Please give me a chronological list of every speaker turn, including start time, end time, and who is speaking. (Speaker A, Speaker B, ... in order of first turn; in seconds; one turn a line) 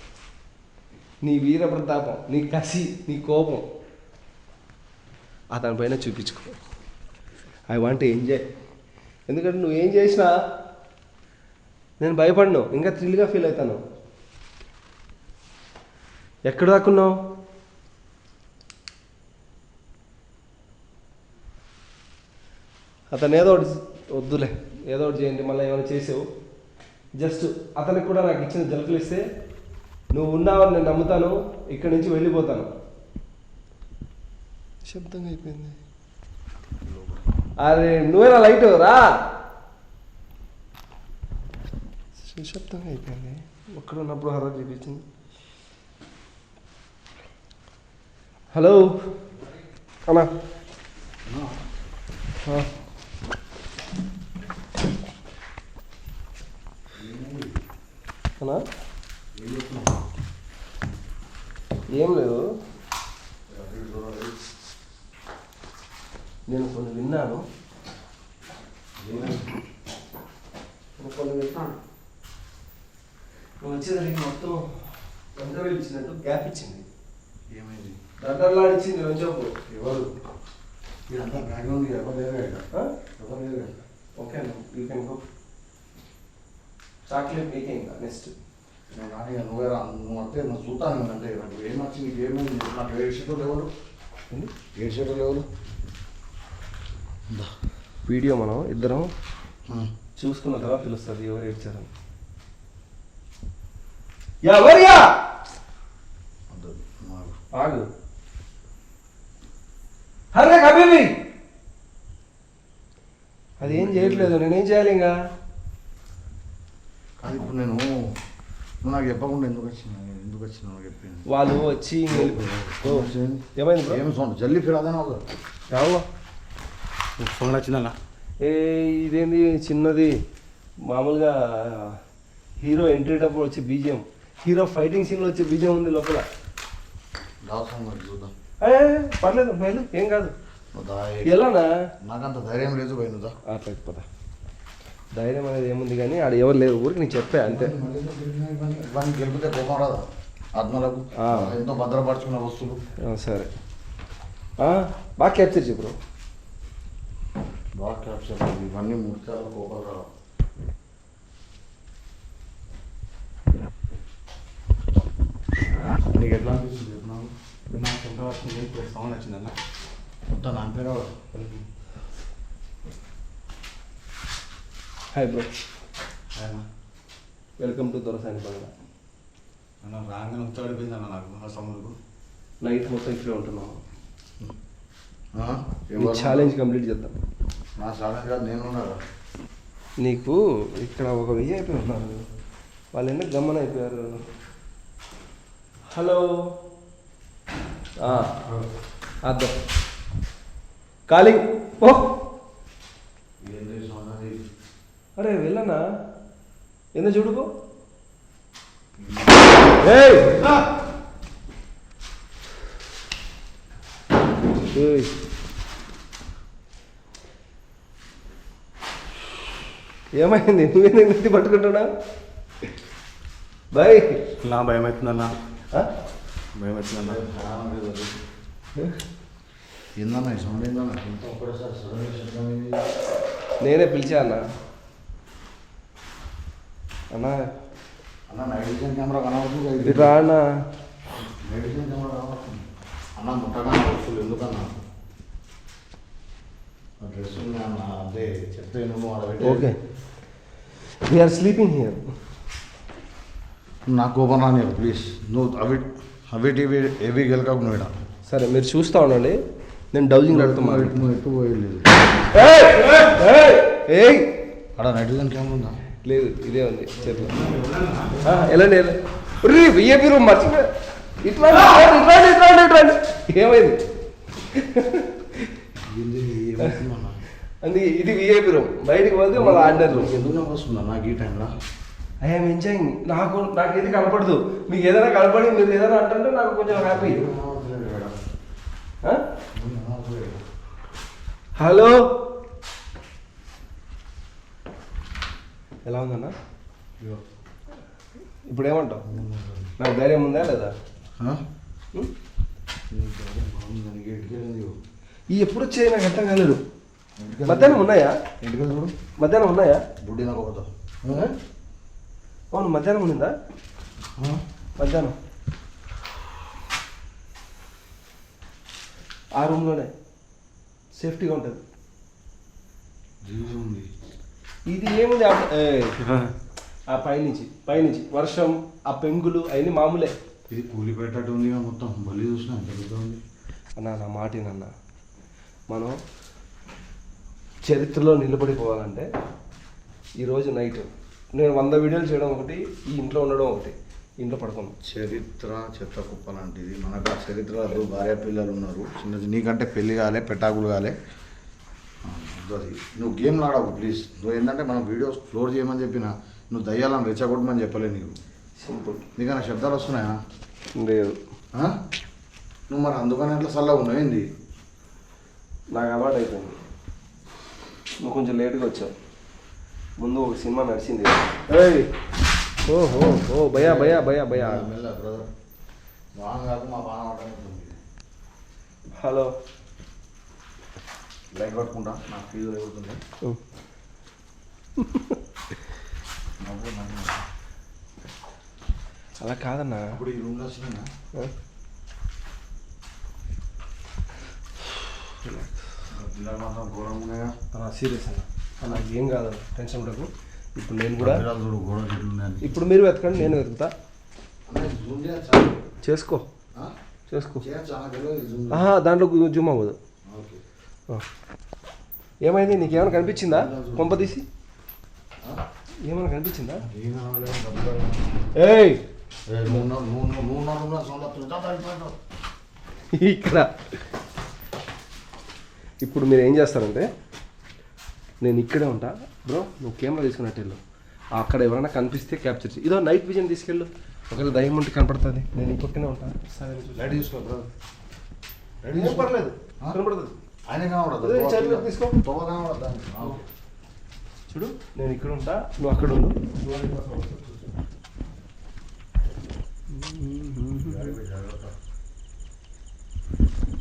Speaker A: 1.2-3.6
Speaker A: 5.5-6.6
Speaker A: 7.7-8.4
Speaker A: 9.3-10.3
Speaker A: 12.0-13.8
Speaker A: 16.5-17.2
Speaker A: 23.1-26.2
Speaker A: 27.2-29.2
Speaker A: 30.1-32.7
Speaker A: 34.8-35.8
Speaker A: 37.6-39.1
Speaker A: 42.2-45.0
Speaker A: 48.5-49.0
Speaker B: 51.2-51.6
Speaker A: 52.4-52.7
Speaker B: 56.9-57.5
Speaker B: 59.3-60.0
Speaker A: 61.9-62.4
Speaker B: 63.5-64.3
Speaker A: 66.5-67.4
Speaker B: 69.0-69.5
Speaker A: 69.1-69.4
Speaker A: 71.0-71.8
Speaker A: 73.6-74.8
Speaker A: 75.3-76.8
Speaker B: 77.5-78.0
Speaker A: 78.2-79.5
Speaker B: 79.7-80.1
Speaker B: 81.1-82.6
Speaker B: 83.2-83.7
Speaker A: 84.2-85.2
Speaker A: 87.1-88.3
Speaker B: 88.9-93.7
Speaker B: 94.7-95.5
Speaker A: 98.0-99.1
Speaker A: 100.2-101.9
Speaker A: 104.4-105.2
Speaker B: 106.5-107.3
Speaker A: 107.5-107.9
Speaker A: 110.3-111.2
Speaker A: 113.6-115.2
Speaker B: 113.6-114.3
Speaker B: 117.2-118.1
Speaker B: 118.8-121.3
Speaker A: 121.3-124.0
Speaker B: 122.1-125.2
Speaker A: 125.7-126.0
Speaker C: 127.2-127.9
Speaker A: 128.4-130.2
Speaker A: 130.8-132.0
Speaker A: 132.6-136.2
Speaker B: 137.4-138.3
Speaker A: 138.6-140.3
Speaker B: 140.7-141.4
Speaker A: 141.2-141.7
Speaker B: 142.0-143.3
Speaker A: 143.4-144.1
Speaker A: 145.1-147.7
Speaker B: 147.4-150.0
Speaker B: 150.6-152.8
Speaker A: 151.2-151.6
Speaker A: 153.0-153.5
Speaker A: 154.6-156.0
Speaker B: 157.8-160.1
Speaker B: 166.1-167.3
Speaker C: 167.7-169.5
Speaker B: 170.3-171.1
Speaker C: 171.3-171.6
Speaker A: 175.1-175.5
Speaker C: 176.3-176.6
Speaker A: 177.6-178.7
Speaker C: 179.8-181.9
Speaker A: 182.6-183.8
Speaker B: 185.3-186.5
Speaker A: 186.0-187.2
Speaker B: 187.8-189.0
Speaker A: 190.0-192.2
Speaker A: 192.9-194.2
Speaker A: 195.9-196.5
Speaker A: 198.0-198.3
Speaker A: 199.2-199.6
Speaker A: 201.1-202.1
Speaker B: 203.4-204.4
Speaker A: 205.2-205.8
Speaker A: 206.9-207.5
Speaker B: 209.0-209.6
Speaker A: 209.8-210.4
Speaker A: 214.7-215.1
Speaker A: 220.2-221.9
Speaker A: 223.7-224.2
Speaker C: 224.4-225.3
Speaker C: 226.6-227.2
Speaker B: 227.0-228.1
Speaker B: 229.9-232.9
Speaker A: 233.6-234.4
Speaker A: 237.1-237.4
Speaker B: 238.3-240.1
Speaker A: 239.8-240.5
Speaker B: 241.1-242.6
Speaker B: 243.2-244.7
Speaker B: 247.0-249.7
Speaker A: 249.4-249.8
Speaker A: 251.0-252.1
Speaker B: 253.9-257.9
Speaker A: 258.3-259.4
Speaker A: 259.9-260.9
Speaker B: 260.3-261.9
Speaker A: 262.3-264.3
Speaker B: 264.8-265.8
Speaker A: 266.0-267.3
Speaker C: 267.1-268.3
Speaker A: 268.2-273.8
Speaker A: 274.5-275.5
Speaker B: 275.9-277.2
Speaker A: 277.6-280.1
Speaker B: 279.3-281.5
Speaker A: 282.2-287.2
Speaker B: 286.7-288.1
Speaker B: 289.5-290.4
Speaker A: 291.6-292.0
Speaker A: 295.9-296.3
Speaker A: 298.5-299.1
Speaker B: 299.0-299.7
Speaker A: 299.8-300.7
Speaker B: 302.9-304.8
Speaker A: 305.3-306.6
Speaker B: 307.2-307.9
Speaker A: 307.4-308.2
Speaker B: 308.4-308.9
Speaker A: 309.2-309.8
Speaker B: 310.0-311.3
Speaker A: 312.5-313.3
Speaker B: 314.2-314.4
Speaker A: 314.8-315.2
Speaker A: 319.4-319.9
Speaker A: 321.0-321.6
Speaker B: 323.2-323.9
Speaker A: 324.7-326.0
Speaker C: 326.0-326.3
Speaker A: 326.9-330.1
Speaker B: 330.5-333.2
Speaker A: 333.8-334.7
Speaker A: 335.7-336.0
Speaker A: 337.6-339.1
Speaker A: 340.2-344.7
Speaker B: 344.8-350.9
Speaker B: 352.0-358.2
Speaker A: 358.6-359.0
Speaker B: 359.2-360.2
Speaker A: 360.8-361.2
Speaker B: 362.7-364.3
Speaker A: 365.7-366.6
Speaker A: 368.0-368.9
Speaker A: 370.0-371.9
Speaker A: 372.6-374.6
Speaker B: 373.5-375.3
Speaker B: 376.1-377.8
Speaker A: 378.9-379.3
Speaker B: 381.4-383.0
Speaker A: 384.8-385.2
Speaker B: 386.4-387.2
Speaker A: 389.2-390.0
Speaker B: 389.9-390.9
Speaker A: 395.2-395.6
Speaker B: 395.9-397.3
Speaker A: 397.5-401.2
Speaker B: 401.0-402.5
Speaker A: 402.4-403.7
Speaker B: 404.5-405.6
Speaker A: 405.8-406.3
Speaker A: 407.1-407.4
Speaker B: 407.4-408.7
Speaker A: 408.5-409.8
Speaker B: 410.1-410.4
Speaker A: 412.2-414.2
Speaker B: 412.6-414.1
Speaker A: 415.8-416.6
Speaker B: 416.6-418.4
Speaker A: 418.4-418.8
Speaker B: 419.3-422.0
Speaker A: 422.9-423.8
Speaker A: 425.8-426.9
Speaker A: 428.2-430.6
Speaker A: 431.1-437.0
Speaker B: 436.7-437.5
Speaker B: 438.6-439.8
Speaker A: 438.7-440.1
Speaker B: 440.5-443.2
Speaker A: 441.0-442.0
Speaker A: 444.3-447.5
Speaker A: 449.7-450.9
Speaker B: 450.6-451.5